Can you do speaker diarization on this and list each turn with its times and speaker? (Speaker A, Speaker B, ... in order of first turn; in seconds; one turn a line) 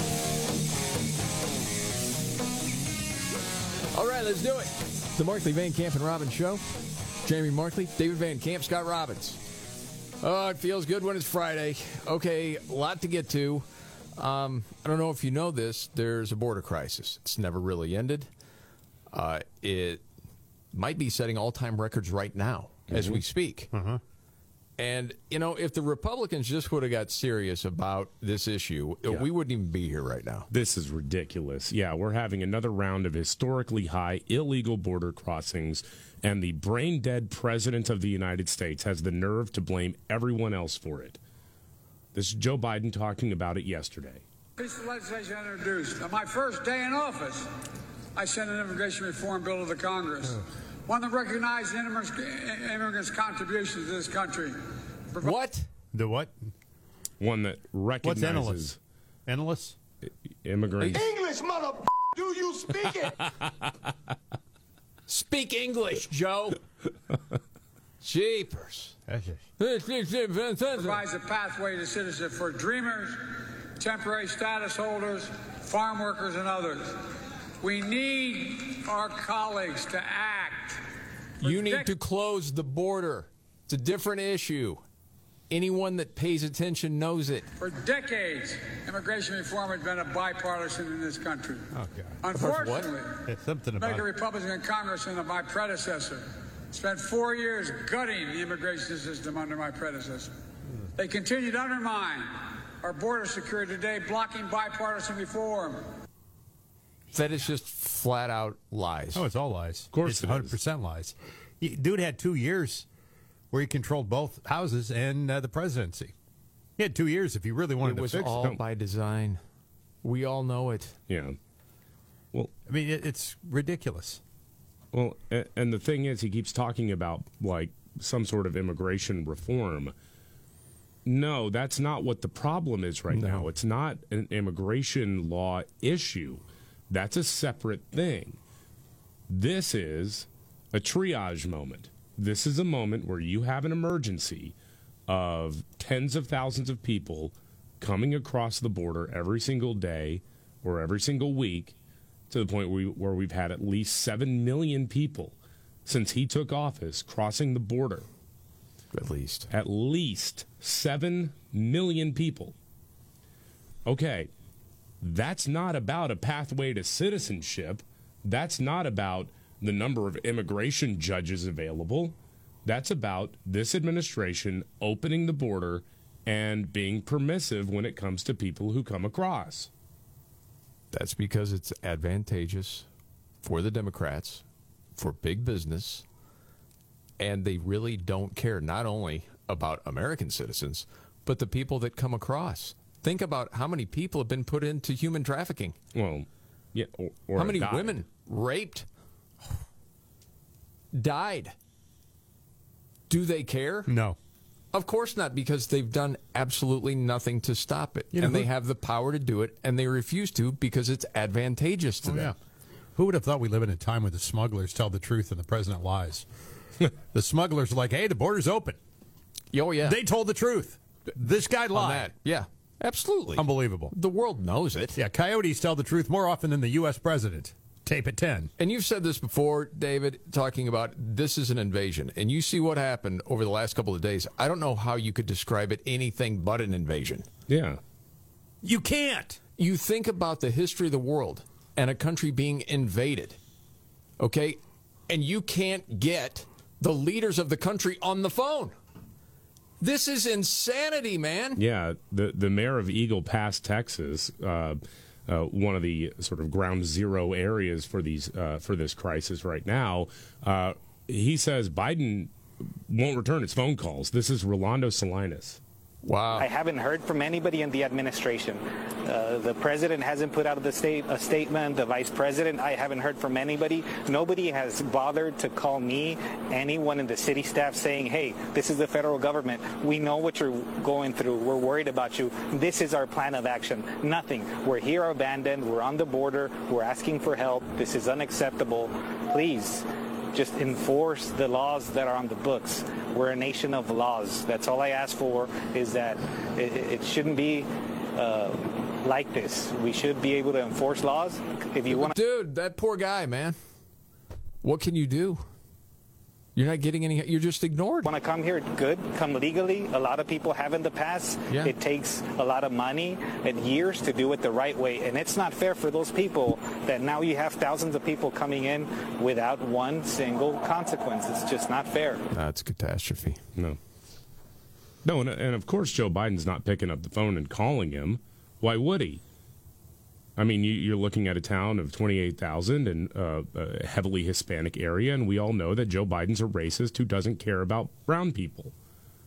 Speaker A: 3.9-6.6
Speaker A: 7.2-9.4
Speaker A: 10.2-13.7
Speaker A: 14.2-18.3
Speaker A: 19.1-20.0
Speaker A: 20.7-23.7
Speaker B: 23.7-24.0
Speaker A: 24.8-30.5
Speaker C: 30.5-41.2
Speaker C: 42.1-44.2
Speaker D: 44.6-47.5
Speaker D: 48.1-54.6
Speaker A: 55.2-55.6
Speaker B: 55.9-56.5
Speaker C: 57.2-58.8
Speaker B: 58.0-58.6
Speaker B: 59.3-59.8
Speaker C: 60.4-61.0
Speaker E: 60.9-63.2
Speaker A: 65.1-66.6
Speaker A: 68.0-69.0
Speaker B: 69.1-69.4
Speaker A: 69.6-71.0
Speaker D: 70.7-80.8
Speaker D: 81.4-81.9
Speaker A: 81.4-84.8
Speaker A: 85.5-87.5
Speaker D: 87.6-91.7
Speaker B: 91.7-92.2
Speaker D: 92.2-93.2
Speaker A: 92.3-92.9
Speaker B: 93.3-94.0
Speaker D: 93.8-100.3
Speaker D: 101.0-105.8
Speaker A: 107.1-109.2
Speaker B: 109.1-112.8
Speaker C: 109.9-110.5
Speaker B: 113.5-116.1
Speaker B: 116.8-118.5
Speaker A: 117.8-119.4
Speaker A: 120.0-121.0
Speaker C: 121.1-121.4
Speaker B: 122.7-124.2
Speaker C: 124.9-129.9
Speaker C: 131.1-138.4
Speaker A: 133.1-133.5
Speaker C: 139.3-144.5
Speaker C: 145.1-151.8
Speaker C: 152.3-158.1
Speaker A: 158.9-159.5
Speaker C: 159.5-162.5
Speaker C: 163.8-164.3
Speaker C: 165.0-179.7
Speaker A: 180.9-182.8
Speaker A: 183.4-184.4
Speaker A: 184.9-186.0
Speaker A: 187.2-195.8
Speaker C: 195.9-197.9
Speaker A: 197.3-198.9
Speaker A: 200.9-201.5
Speaker A: 203.1-203.9
Speaker B: 203.9-204.2
Speaker A: 204.7-212.3
Speaker B: 208.1-208.5
Speaker B: 212.0-212.3
Speaker B: 212.9-216.2
Speaker B: 217.1-218.8
Speaker A: 219.5-220.0
Speaker B: 219.8-222.1
Speaker A: 221.7-225.0
Speaker B: 223.3-223.9
Speaker B: 224.9-228.5
Speaker A: 228.6-237.3
Speaker C: 237.5-237.8
Speaker B: 238.6-239.4
Speaker A: 239.6-243.4
Speaker A: 244.2-248.7
Speaker A: 249.8-251.6
Speaker C: 251.6-262.3
Speaker C: 262.9-265.6
Speaker A: 266.0-266.5
Speaker F: 266.4-302.1
Speaker A: 301.9-303.6
Speaker A: 304.6-305.4
Speaker A: 306.6-308.1
Speaker F: 308.0-322.2
Speaker A: 322.3-323.4
Speaker C: 325.0-329.2
Speaker C: 330.4-338.7